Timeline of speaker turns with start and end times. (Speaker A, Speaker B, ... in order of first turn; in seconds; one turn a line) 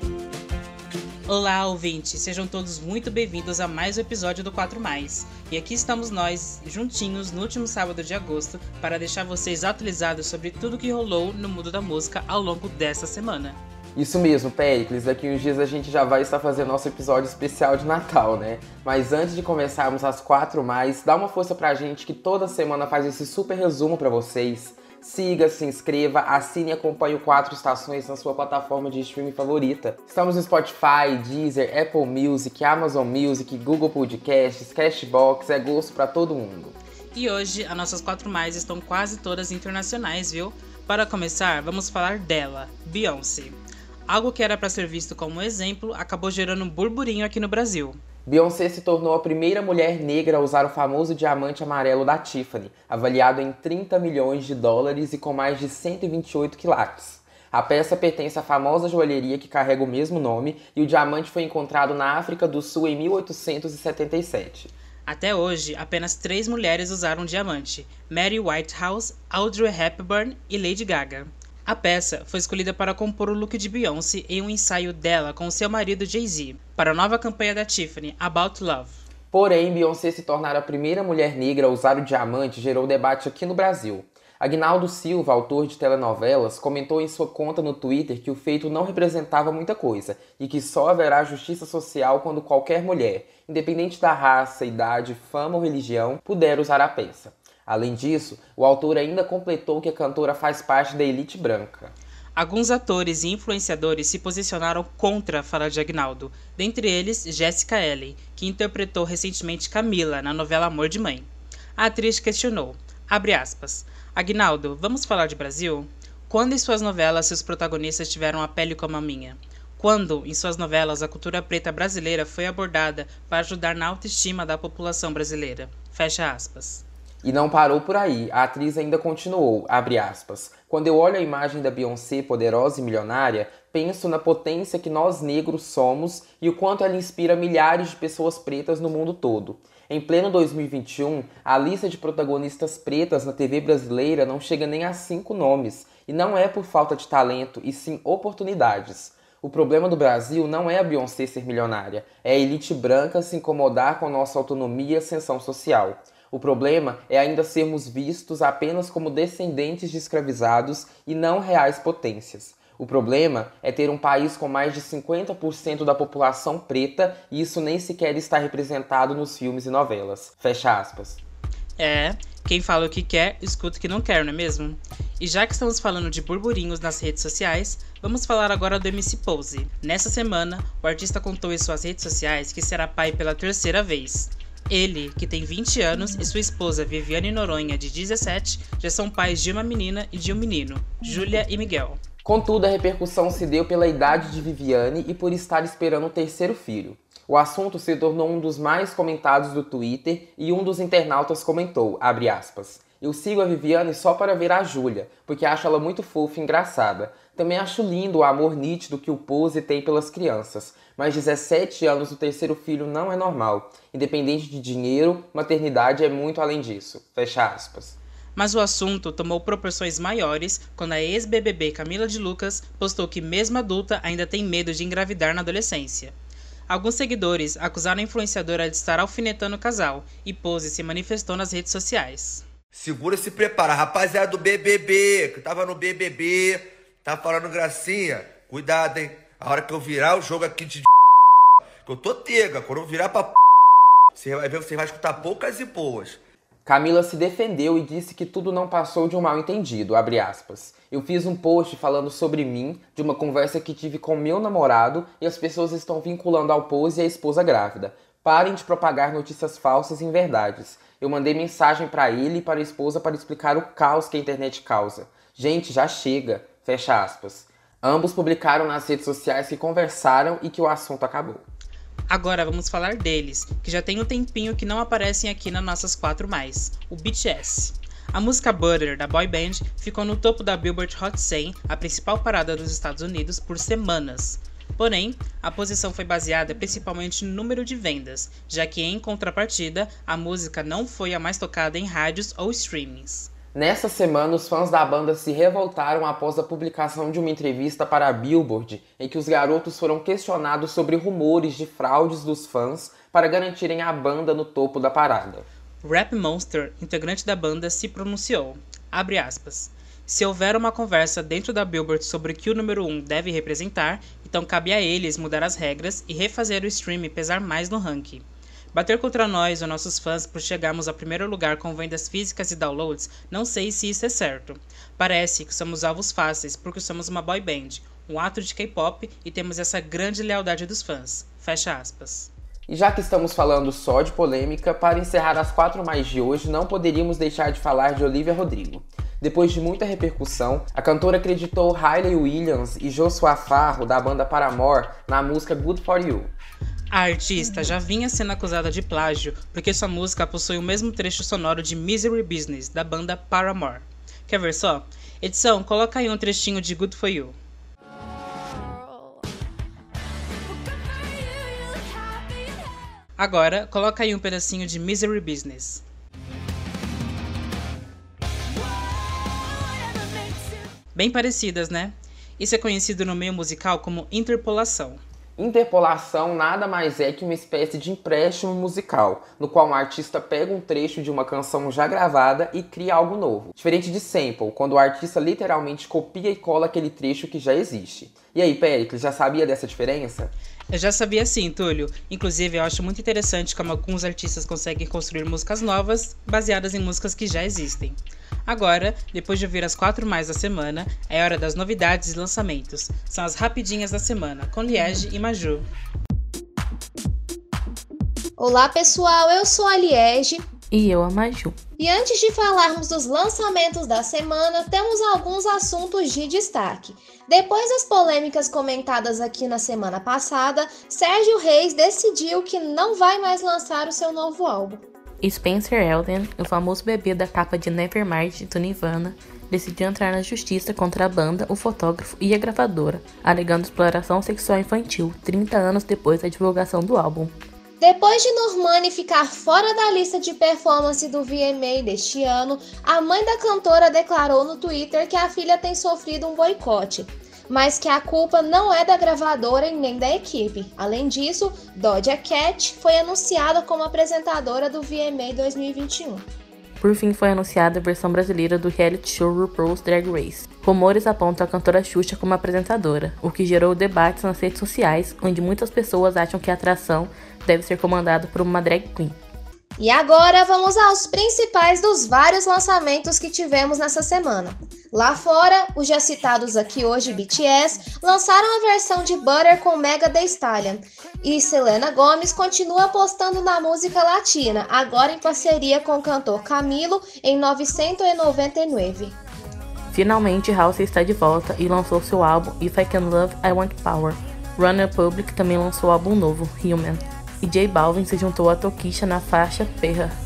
Speaker A: 1.3-13.6
Speaker B: 13.9-36.8
Speaker A: 37.1-48.0
Speaker B: 48.2-64.7
Speaker A: 65.1-79.0
Speaker B: 79.3-101.9
Speaker A: 102.3-126.8
Speaker B: 127.2-171.2
Speaker A: 171.8-192.0
Speaker B: 192.2-218.0
Speaker A: 218.3-226.1
Speaker A: 226.7-232.4
Speaker C: 232.7-240.9
Speaker C: 241.8-243.4
Speaker C: 244.2-246.2
Speaker B: 246.7-271.4
Speaker A: 272.1-293.3
Speaker B: 293.5-305.4
Speaker A: 305.8-332.3
Speaker B: 332.7-346.3
Speaker A: 346.9-357.4
Speaker A: 363.2-365.8
Speaker A: 370.9-375.0
Speaker B: 375.4-390.3
Speaker A: 390.7-405.6
Speaker D: 408.4-410.4
Speaker E: 410.7-411.6
Speaker D: 411.8-424.8
Speaker E: 425.2-437.3
Speaker D: 437.8-456.2
Speaker E: 456.8-469.2
Speaker D: 469.8-489.1
Speaker E: 489.9-500.1